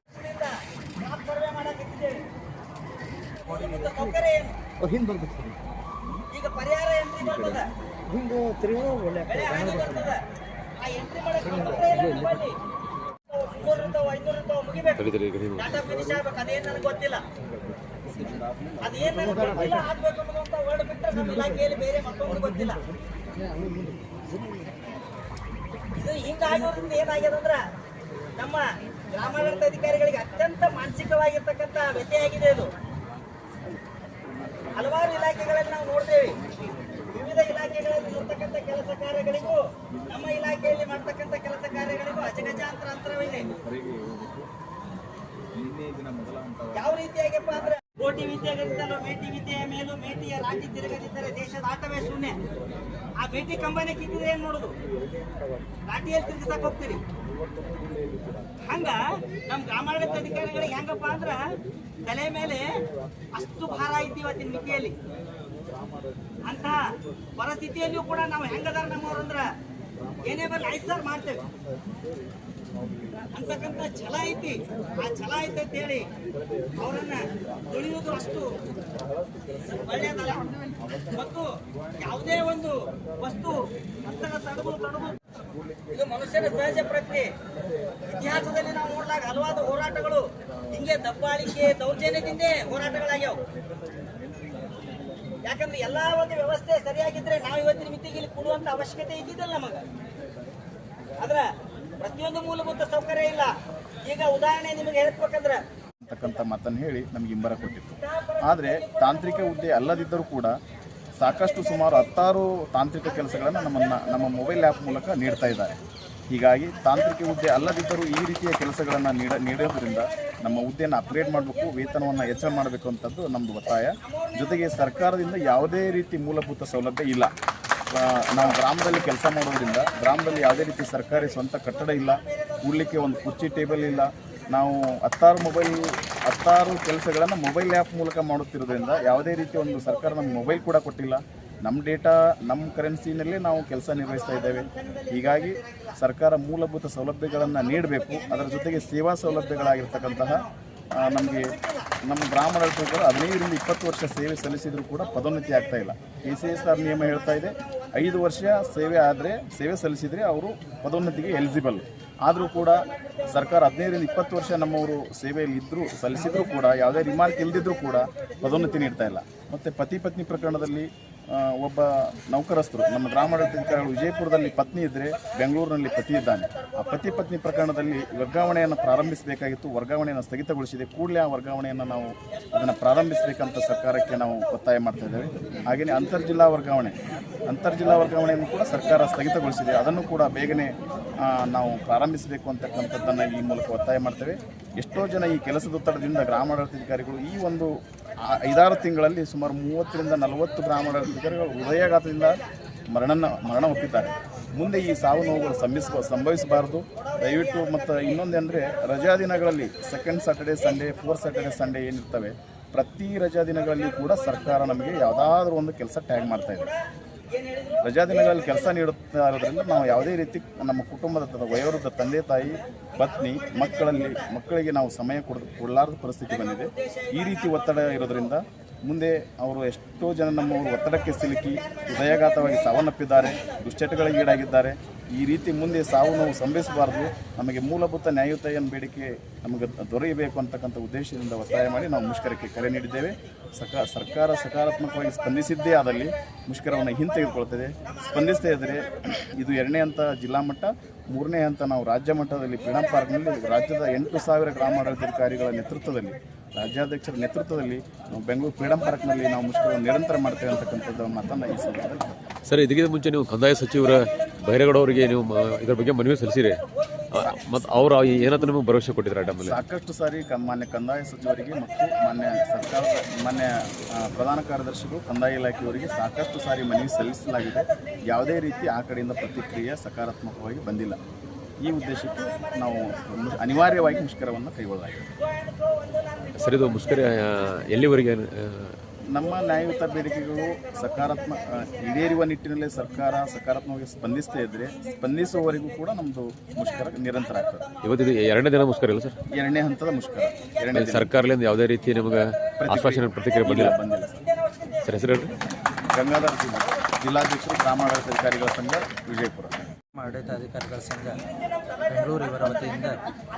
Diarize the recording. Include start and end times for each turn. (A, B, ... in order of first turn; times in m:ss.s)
0:01.0-0:02.2 A
0:03.5-0:04.5 A
0:06.3-0:07.6 A
0:09.2-0:10.2 A
0:10.8-0:12.5 A
0:13.4-0:14.8 A
0:14.9-0:15.9 B
0:15.9-0:17.2 A
0:18.8-0:22.8 A
0:26.0-0:27.6 A
0:29.1-0:32.7 A
0:34.8-0:36.4 A
0:37.2-0:39.6 A
0:40.2-0:43.5 A
0:43.6-0:44.3 C
0:45.6-0:46.8 C
0:46.8-0:52.4 A
0:53.2-0:54.7 A
0:55.9-0:57.0 A
0:58.6-1:01.4 A
1:02.0-1:02.6 A
1:03.4-1:04.9 A
1:06.5-1:06.8 A
1:07.4-1:09.4 A
1:10.2-1:11.4 A
1:13.3-1:16.1 A
1:16.8-1:18.5 A
1:19.7-1:20.5 A
1:21.1-1:21.4 A
1:22.0-1:25.2 A
1:25.9-1:27.3 A
1:28.1-1:33.4 A
1:35.5-1:39.8 A
1:42.0-1:43.5 A
1:44.1-1:45.6 A
1:46.0-1:50.5 C
1:51.2-1:55.8 C
1:56.3-2:07.3 C
2:07.9-3:36.7 C
3:37.8-4:22.2 C
4:22.5-4:26.6 B
4:27.1-4:29.6 B
4:29.5-4:41.0 C
4:41.6-4:45.1 C
4:46.4-4:48.8 B
4:49.1-4:57.7 C
4:57.8-4:59.2 B
4:59.3-5:01.1 C
5:00.7-5:03.7 B
5:02.6-5:04.2 C
5:04.8-5:05.3 B
5:05.9-5:09.7 C
5:10.0-5:11.2 D
5:11.9-5:13.0 D